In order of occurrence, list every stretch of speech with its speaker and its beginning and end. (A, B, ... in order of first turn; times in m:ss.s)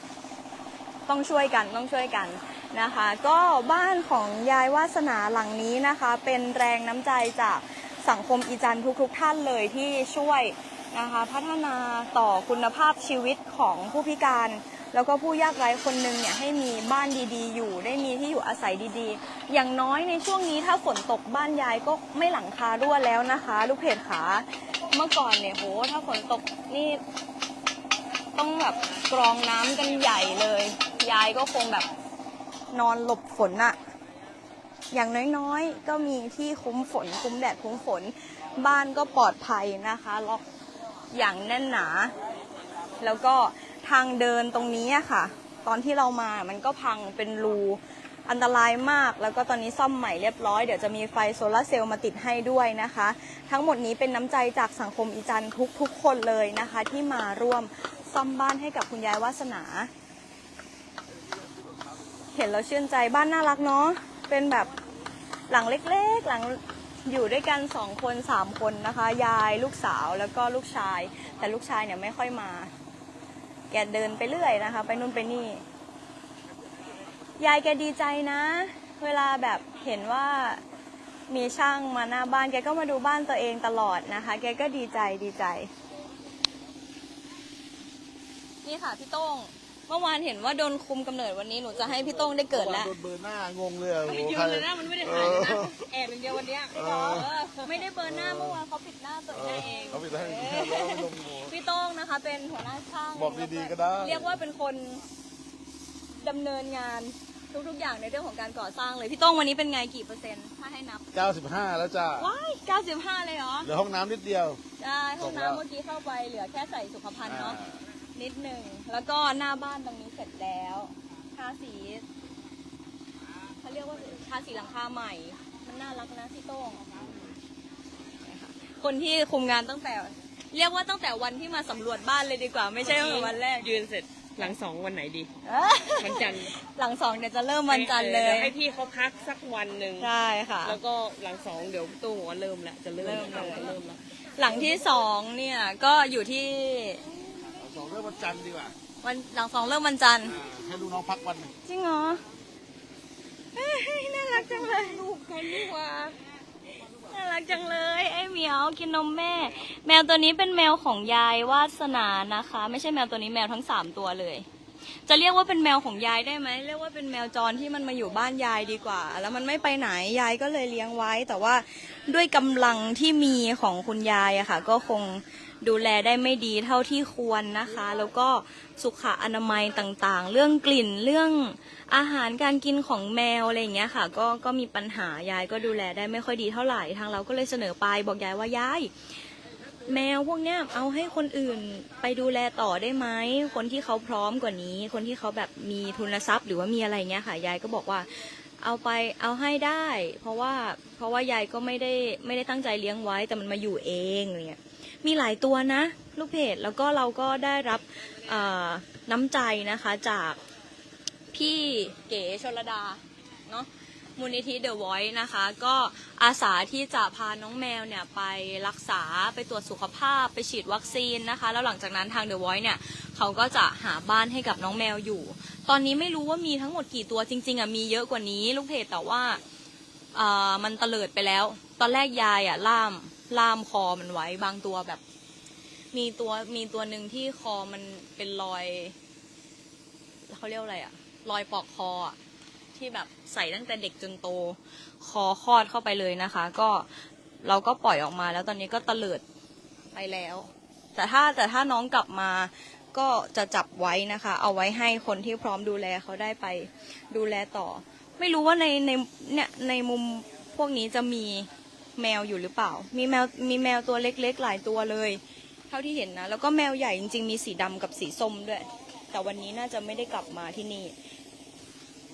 0:01.1-0:27.0 A
0:28.3-0:31.9 A
0:32.7-0:33.8 A
0:34.9-0:40.4 A
0:41.1-0:42.1 A
0:43.0-0:59.9 A
1:02.3-1:04.7 A
1:05.5-1:12.7 A
1:13.7-1:15.6 A
1:17.4-1:20.6 A
1:21.3-1:25.7 A
1:28.6-1:32.9 A
1:32.5-1:35.8 B
1:34.0-1:37.8 C
1:36.7-1:37.3 B
1:37.6-1:45.0 A
1:38.0-1:38.6 B
1:39.3-1:41.5 B
1:39.6-1:40.0 C
1:43.1-1:44.4 B
1:46.2-1:51.0 A
1:51.1-1:52.3 B
1:52.1-1:53.7 A
1:53.6-1:54.6 B
1:54.8-1:57.6 A
1:55.2-1:55.6 B
1:57.3-1:57.7 B
1:58.1-2:02.0 A
2:03.6-2:06.8 A
2:08.2-2:13.7 A
2:12.8-2:15.3 C
2:15.4-2:18.5 A
2:16.0-2:16.5 C
2:17.7-2:20.1 C
2:20.0-2:20.8 A
2:20.6-2:24.0 C
2:23.0-2:23.8 A
2:24.4-2:27.0 A
2:27.6-2:28.7 B
2:29.0-2:30.4 A
2:30.3-2:31.5 B
2:31.6-2:32.2 A
2:33.5-2:35.0 A
2:34.3-2:36.2 C
2:37.0-2:44.4 A
2:45.1-3:08.9 A
3:09.9-3:30.4 A
3:31.3-3:49.4 A
3:50.1-3:55.0 A
3:55.9-3:58.9 A
4:00.3-4:02.2 A
4:02.7-4:06.9 A
4:07.4-4:09.2 A
4:09.9-4:30.9 A